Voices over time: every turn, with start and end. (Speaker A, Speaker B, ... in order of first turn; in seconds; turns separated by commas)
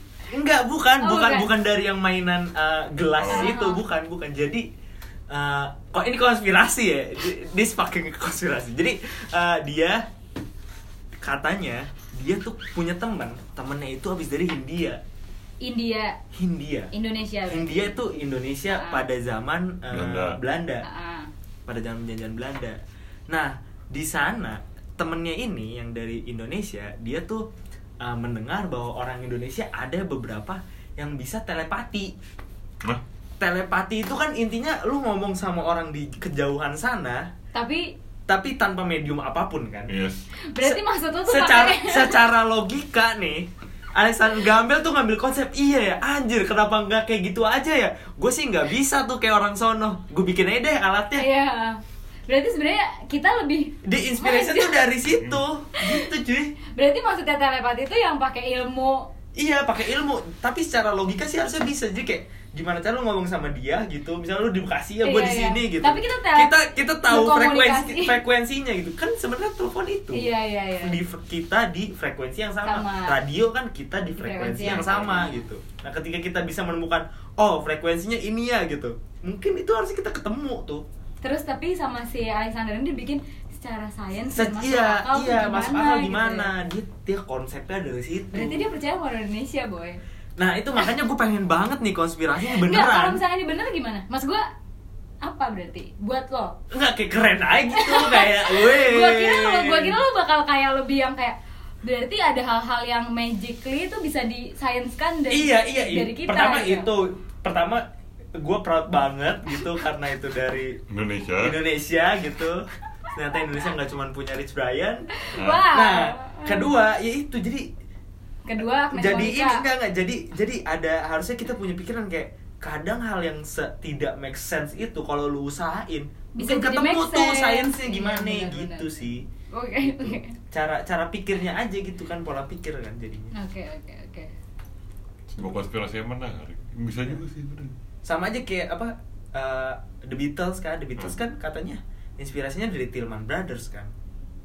Speaker A: 0.3-4.7, Speaker B: 1.0-1.5, Speaker C: 3.2-3.5, Speaker B: 3.3-3.8, Speaker A: 5.3-10.0, Speaker A: 11.2-15.0, Speaker B: 15.6-16.2, Speaker A: 16.3-16.9, Speaker B: 16.9-17.9, Speaker A: 17.5-20.9, Speaker B: 18.7-19.0, Speaker C: 19.9-20.4, Speaker B: 20.8-21.3, Speaker A: 21.6-27.4, Speaker A: 28.0-32.1, Speaker A: 33.4-37.3, Speaker B: 37.5-37.9, Speaker A: 38.3-39.9, Speaker C: 39.9-40.2, Speaker B: 40.5-42.2, Speaker A: 40.6-51.3, Speaker B: 51.2-54.9, Speaker A: 53.8-56.5, Speaker B: 55.8-56.1, Speaker B: 56.7-59.1, Speaker A: 59.4-70.3, Speaker B: 65.0-68.2, Speaker B: 70.1-71.0, Speaker A: 70.8-80.8, Speaker B: 72.6-73.2, Speaker B: 74.2-75.4, Speaker C: 74.6-75.2, Speaker B: 81.2-86.5, Speaker A: 84.3-88.7, Speaker B: 88.3-90.0, Speaker A: 90.4-93.2, Speaker B: 92.5-94.4, Speaker B: 95.2-96.6, Speaker A: 96.7-100.0, Speaker B: 97.7-106.9, Speaker A: 105.3-107.8, Speaker A: 108.4-110.8, Speaker C: 110.9-111.5, Speaker A: 111.4-117.7, Speaker B: 115.1-116.7, Speaker C: 115.3-115.6, Speaker B: 118.5-119.6, Speaker A: 118.9-129.2, Speaker B: 126.4-128.9, Speaker B: 129.5-130.4, Speaker A: 129.8-133.3, Speaker B: 133.3-134.3, Speaker C: 135.3-137.7, Speaker A: 138.0-143.9